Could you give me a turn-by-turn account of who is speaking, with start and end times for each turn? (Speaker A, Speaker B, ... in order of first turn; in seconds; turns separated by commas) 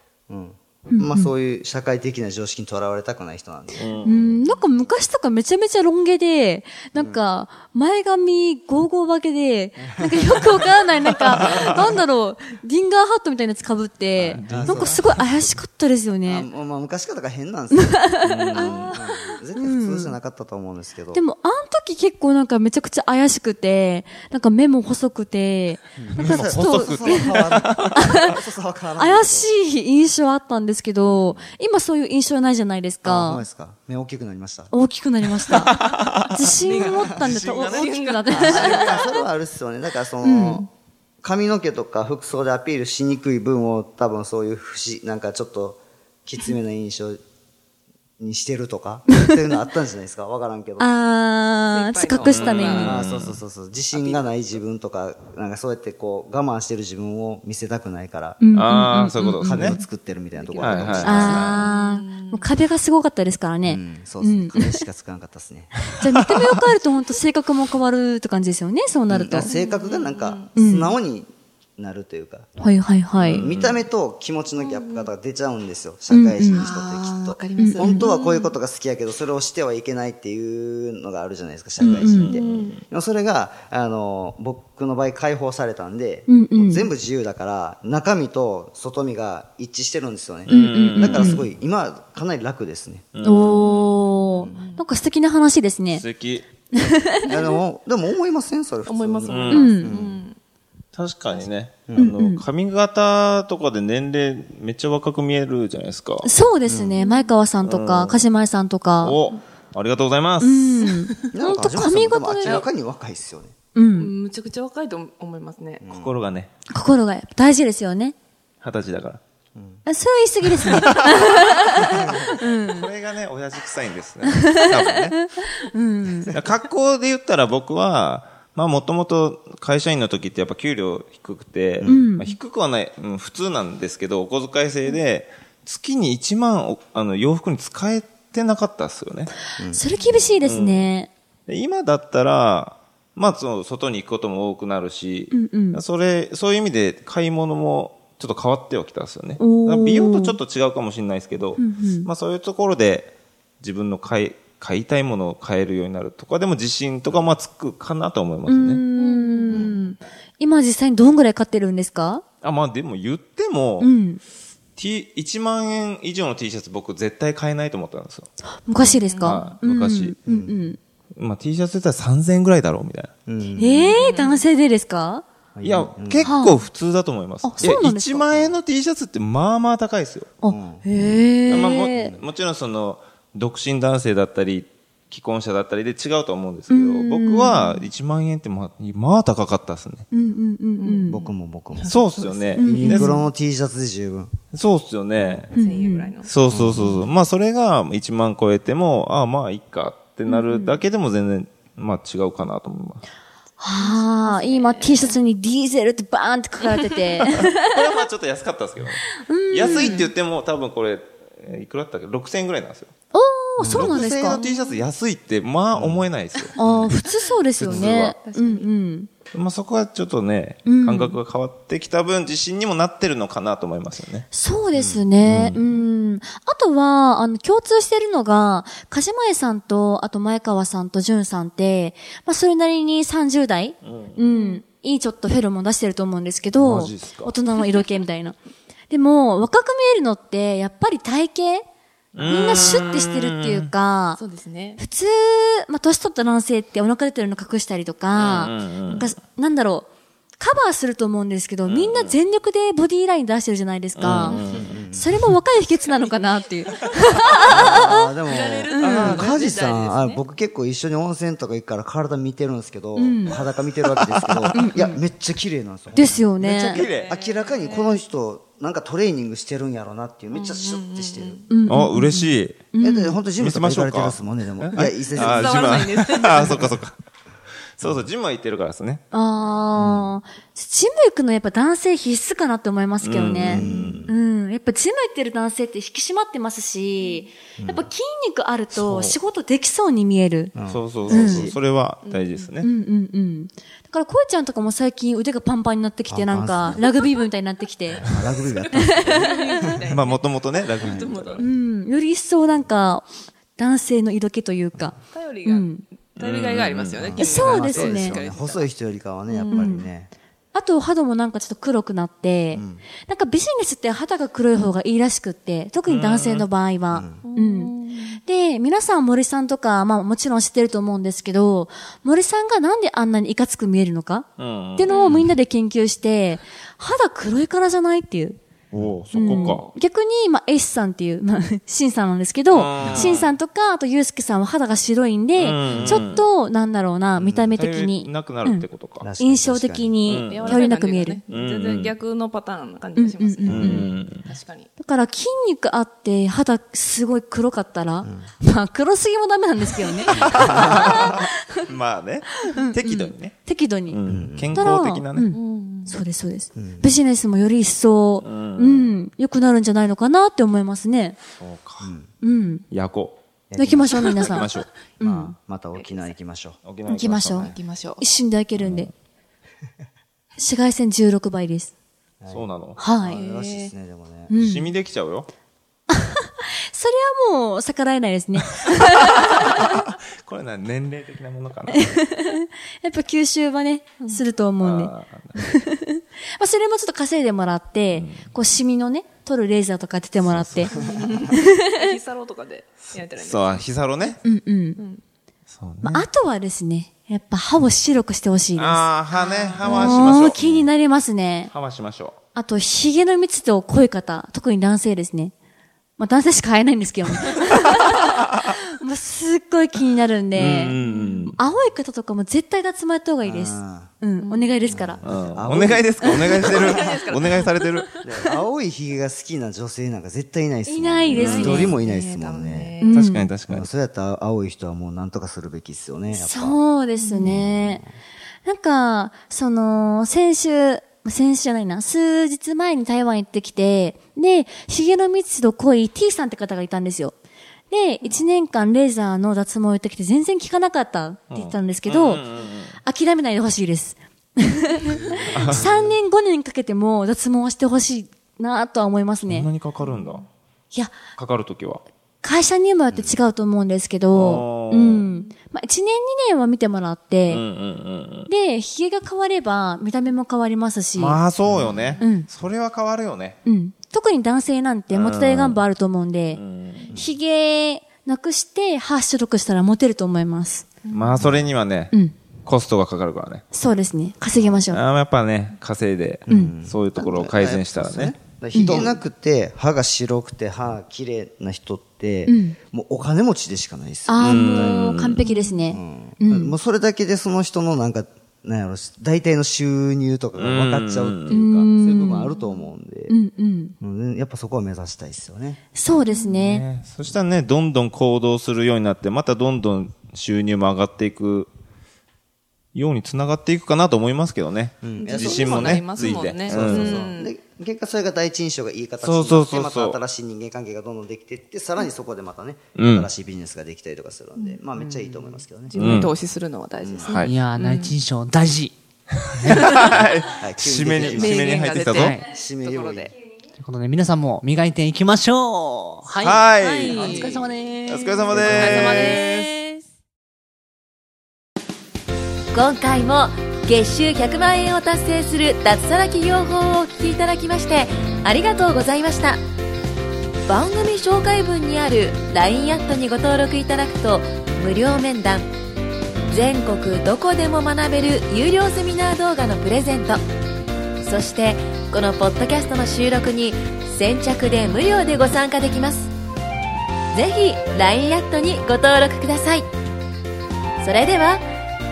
Speaker A: 0.3-4.4, Speaker B: 0.9-1.3, Speaker C: 3.7-4.3, Speaker B: 4.0-16.5, Speaker A: 6.9-7.3, Speaker A: 9.8-10.6, Speaker A: 11.3-12.0, Speaker C: 14.2-15.2, Speaker A: 14.5-15.6, Speaker A: 16.2-21.2, Speaker B: 17.7-18.8, Speaker C: 18.3-18.6, Speaker B: 19.3-20.1, Speaker B: 21.1-28.3, Speaker A: 26.0-29.5, Speaker C: 26.2-28.2, Speaker B: 28.9-33.4, Speaker A: 31.0-31.5, Speaker A: 33.0-34.7, Speaker B: 34.7-35.8, Speaker C: 35.6-36.4, Speaker B: 36.3-39.1, Speaker D: 36.6-39.2, Speaker A: 36.7-37.0, Speaker C: 37.2-37.8, Speaker A: 38.3-40.7, Speaker B: 40.2-40.7, Speaker A: 41.2-47.2, Speaker A: 48.2-50.9, Speaker B: 50.8-52.9, Speaker D: 51.7-53.0, Speaker C: 52.3-53.3, Speaker A: 52.8-58.4, Speaker D: 53.9-54.6, Speaker B: 58.4-59.8, Speaker C: 58.5-59.8, Speaker A: 59.3-61.6, Speaker D: 60.3-62.5, Speaker C: 60.6-61.6, Speaker B: 61.0-64.8, Speaker A: 63.6-65.7, Speaker B: 66.0-69.5, Speaker A: 69.1-72.5, Speaker D: 69.3-70.6, Speaker B: 70.5-71.0, Speaker B: 72.6-73.4, Speaker C: 73.2-73.8, Speaker A: 73.3-93.1, Speaker D: 74.5-75.1, Speaker B: 76.1-76.6, Speaker D: 76.5-78.5, Speaker B: 77.6-78.0, Speaker B: 81.8-82.4, Speaker D: 81.8-82.8, Speaker C: 82.1-82.7, Speaker B: 86.3-86.9, Speaker B: 90.5-91.4, Speaker C: 90.5-91.2, Speaker C: 93.1-93.9, Speaker B: 93.2-96.0, Speaker D: 93.4-94.8, Speaker C: 95.9-96.5, Speaker B: 96.7-97.5, Speaker A: 97.2-100.2, Speaker D: 98.8-100.4, Speaker C: 99.3-99.8, Speaker B: 99.5-99.9, Speaker C: 100.9-106.3, Speaker A: 101.9-102.1, Speaker B: 102.0-102.4, Speaker B: 106.2-109.2, Speaker A: 106.7-107.0, Speaker D: 107.0-107.3, Speaker C: 107.6-108.2, Speaker C: 109.0-110.7, Speaker B: 110.4-112.7, Speaker A: 111.3-113.5, Speaker B: 113.7-114.1, Speaker D: 113.9-115.8, Speaker A: 115.8-116.2, Speaker C: 115.9-116.5, Speaker B: 116.7-118.1, Speaker C: 118.6-119.2, Speaker A: 119.5-119.8, Speaker B: 119.8-122.9, Speaker C: 120.8-121.6, Speaker A: 121.9-122.3, Speaker C: 122.6-125.2, Speaker B: 124.3-126.3, Speaker C: 126.3-139.3, Speaker A: 131.8-132.1, Speaker B: 131.8-132.3, Speaker B: 139.7-141.1, Speaker D: 139.9-140.3, Speaker C: 140.4-140.9, Speaker C: 141.5-158.8, Speaker B: 145.3-145.8, Speaker B: 149.4-150.4, Speaker B: 151.6-152.1, Speaker B: 158.4-162.2, Speaker D: 158.9-159.9, Speaker C: 162.4-163.9, Speaker B: 163.8-164.2, Speaker C: 164.8-168.3, Speaker B: 168.5-170.8, Speaker D: 168.8-169.6, Speaker C: 169.2-170.2, Speaker A: 170.2-170.6, Speaker C: 171.2-173.1, Speaker A: 173.3-174.0, Speaker B: 173.6-175.2, Speaker D: 173.9-174.4, Speaker A: 175.6-176.3, Speaker C: 175.6-180.3, Speaker B: 176.2-176.6, Speaker B: 177.4-178.5, Speaker B: 180.4-182.1, Speaker A: 180.4-180.8, Speaker C: 181.5-190.0, Speaker A: 181.6-182.2, Speaker B: 186.7-187.9, Speaker B: 190.1-191.2, Speaker D: 190.8-193.1, Speaker A: 191.1-192.0, Speaker C: 191.9-193.1, Speaker B: 192.6-193.2, Speaker A: 192.6-194.3, Speaker C: 194.5-195.5, Speaker D: 195.2-197.0, Speaker B: 195.5-196.1, Speaker C: 196.3-203.0, Speaker A: 196.5-196.8, Speaker B: 200.2-200.8, Speaker B: 203.6-208.0, Speaker D: 203.7-205.2, Speaker C: 207.3-212.9, Speaker B: 209.2-210.1, Speaker D: 209.7-210.1, Speaker B: 213.1-214.4, Speaker A: 213.6-214.2, Speaker C: 213.7-216.5, Speaker D: 214.3-214.8, Speaker A: 215.7-216.1, Speaker B: 216.6-219.1, Speaker A: 216.6-216.9, Speaker C: 217.6-218.1, Speaker A: 217.7-217.9, Speaker D: 217.7-218.7, Speaker C: 219.3-224.2, Speaker B: 220.6-221.2, Speaker B: 224.3-238.4, Speaker A: 224.7-225.6, Speaker D: 225.6-225.8, Speaker C: 233.8-234.2, Speaker D: 234.3-234.6, Speaker A: 236.6-237.3, Speaker B: 238.9-241.6, Speaker C: 242.1-243.7, Speaker B: 242.2-244.2, Speaker D: 244.2-244.8, Speaker B: 244.8-249.9, Speaker C: 248.1-249.1, Speaker B: 250.4-254.4, Speaker C: 251.7-252.2, Speaker C: 254.0-254.6, Speaker A: 254.3-255.1, Speaker D: 254.3-254.7, Speaker B: 254.9-258.1, Speaker D: 257.4-260.2, Speaker A: 257.4-266.3, Speaker B: 258.7-259.2, Speaker C: 258.8-259.4, Speaker B: 262.9-263.4, Speaker C: 264.1-264.4, Speaker B: 264.5-265.0, Speaker B: 265.9-266.8, Speaker C: 266.4-267.1, Speaker D: 266.7-268.0, Speaker A: 267.0-271.5, Speaker D: 270.3-271.5, Speaker B: 271.5-273.2, Speaker C: 271.7-272.6, Speaker A: 272.8-275.8, Speaker C: 273.4-276.9, Speaker D: 275.1-276.7, Speaker C: 277.8-279.0, Speaker B: 279.1-290.5, Speaker A: 279.7-280.1, Speaker C: 283.0-284.0, Speaker A: 283.4-284.1, Speaker D: 287.0-287.3, Speaker A: 287.6-287.9, Speaker C: 288.7-289.2, Speaker A: 290.5-291.6, Speaker C: 290.7-292.7, Speaker B: 291.1-291.5, Speaker D: 292.0-292.5, Speaker B: 292.6-298.0, Speaker A: 296.1-296.8, Speaker A: 297.9-300.0, Speaker D: 298.5-301.5, Speaker B: 298.7-299.6, Speaker C: 299.9-301.4, Speaker A: 300.8-301.1, Speaker B: 301.4-305.8, Speaker D: 305.1-308.7, Speaker C: 306.2-307.6, Speaker A: 307.0-310.1, Speaker B: 307.2-308.2, Speaker D: 309.3-309.8, Speaker B: 309.5-309.9, Speaker B: 310.5-317.7, Speaker A: 312.5-312.8, Speaker C: 315.9-316.5, Speaker A: 316.9-317.2, Speaker D: 317.2-318.2, Speaker B: 318.2-328.4, Speaker C: 324.4-325.2, Speaker D: 324.9-325.2, Speaker A: 328.7-329.0, Speaker C: 328.7-329.7, Speaker B: 329.1-338.6, Speaker D: 329.2-329.7, Speaker C: 332.5-333.3, Speaker A: 332.8-333.1, Speaker C: 335.4-336.2, Speaker A: 335.6-336.2, Speaker A: 337.2-337.6, Speaker C: 337.6-339.1, Speaker A: 339.0-340.0, Speaker B: 339.2-341.2, Speaker C: 340.1-340.5, Speaker D: 340.1-344.7, Speaker C: 341.3-341.9, Speaker B: 342.9-343.9, Speaker A: 343.4-343.9, Speaker C: 343.5-344.3, Speaker B: 344.8-351.3, Speaker A: 348.0-348.3, Speaker A: 350.1-350.9, Speaker C: 350.2-351.1, Speaker C: 351.6-353.3, Speaker B: 352.5-354.0, Speaker C: 353.9-355.3, Speaker A: 354.1-354.5, Speaker B: 354.5-361.2, Speaker D: 355.3-356.0, Speaker A: 356.6-356.9, Speaker C: 358.2-359.0, Speaker C: 361.4-361.9, Speaker A: 361.8-362.1, Speaker B: 362.2-362.6, Speaker C: 362.7-363.2, Speaker A: 363.5-364.3, Speaker B: 363.6-365.3, Speaker C: 364.1-364.7, Speaker A: 365.0-366.6, Speaker D: 365.7-366.1, Speaker C: 366.6-367.5, Speaker B: 366.9-368.9, Speaker D: 367.4-368.0, Speaker B: 370.4-371.7, Speaker A: 372.2-372.4, Speaker C: 372.3-372.8, Speaker B: 372.8-373.2, Speaker A: 373.0-374.3, Speaker D: 373.1-373.7, Speaker B: 374.3-374.7, Speaker C: 374.4-375.3, Speaker B: 375.9-379.7, Speaker C: 379.3-382.0, Speaker B: 381.7-390.7, Speaker C: 384.6-385.4, Speaker C: 387.9-388.2, Speaker C: 390.2-390.7, Speaker D: 390.7-393.6, Speaker B: 391.3-391.9, Speaker C: 393.2-394.2, Speaker B: 394.2-394.8, Speaker D: 394.8-395.0, Speaker C: 395.5-396.1, Speaker B: 395.8-398.9, Speaker C: 398.6-400.4, Speaker D: 399.1-400.2, Speaker B: 399.6-401.5, Speaker A: 400.4-400.7, Speaker C: 401.5-402.2, Speaker B: 402.3-405.3, Speaker B: 406.0-415.0, Speaker C: 410.3-411.4, Speaker D: 410.8-411.3, Speaker A: 413.2-413.9, Speaker D: 414.2-414.5, Speaker A: 414.6-417.0, Speaker C: 415.0-417.9, Speaker B: 416.0-416.5, Speaker D: 416.0-418.0, Speaker A: 418.0-422.8, Speaker B: 420.6-421.7, Speaker D: 421.1-422.9, Speaker C: 421.2-421.6, Speaker B: 422.8-423.3, Speaker C: 422.9-423.7, Speaker A: 423.5-426.6, Speaker B: 426.1-427.8, Speaker D: 427.0-427.3, Speaker A: 427.2-427.9, Speaker B: 428.4-437.1, Speaker B: 437.7-442.2, Speaker C: 441.3-442.8, Speaker B: 442.8-449.5, Speaker A: 445.0-445.9, Speaker C: 445.3-445.6, Speaker C: 449.3-450.2, Speaker D: 449.8-450.2, Speaker B: 450.7-451.0, Speaker C: 451.1-451.8, Speaker B: 452.2-457.4, Speaker A: 452.9-453.2, Speaker C: 454.1-455.1, Speaker C: 457.3-458.3, Speaker B: 458.3-461.2, Speaker C: 460.9-463.4, Speaker A: 461.4-461.9, Speaker D: 461.7-462.0, Speaker B: 462.0-462.3, Speaker B: 463.4-466.4, Speaker C: 464.9-465.6, Speaker C: 466.3-466.9, Speaker B: 466.9-470.7, Speaker D: 470.8-471.3, Speaker A: 470.9-471.5, Speaker C: 470.9-471.9, Speaker C: 472.4-473.4, Speaker B: 473.5-474.8, Speaker A: 474.4-474.7, Speaker C: 474.7-478.2, Speaker A: 476.3-484.9, Speaker B: 476.3-476.5, Speaker B: 478.5-478.9, Speaker B: 482.2-482.6, Speaker B: 484.1-486.6, Speaker C: 484.2-485.2, Speaker D: 485.2-485.6, Speaker A: 485.7-493.2, Speaker C: 490.4-491.4, Speaker B: 491.3-493.7, Speaker A: 493.8-495.6, Speaker B: 495.7-496.6, Speaker D: 496.0-496.4, Speaker C: 496.4-501.5, Speaker C: 502.7-506.9, Speaker A: 504.8-515.8, Speaker D: 504.9-507.3, Speaker C: 509.0-510.0, Speaker C: 512.8-513.1, Speaker E: 514.8-516.0, Speaker D: 515.6-517.9, Speaker C: 515.8-516.1, Speaker A: 516.8-517.1, Speaker E: 517.2-518.8, Speaker E: 519.4-519.7, Speaker C: 519.4-522.1, Speaker A: 520.4-521.6, Speaker D: 521.0-523.1, Speaker E: 522.0-522.2, Speaker A: 522.2-523.1, Speaker E: 523.6-526.4, Speaker D: 526.2-529.8, Speaker C: 526.2-527.2, Speaker E: 527.0-527.7, Speaker C: 527.9-529.5, Speaker A: 528.3-529.1, Speaker F: 532.5-539.4, Speaker F: 540.5-545.5, Speaker F: 546.3-550.2, Speaker F: 551.0-556.1, Speaker F: 557.1-559.7, Speaker F: 560.8-561.4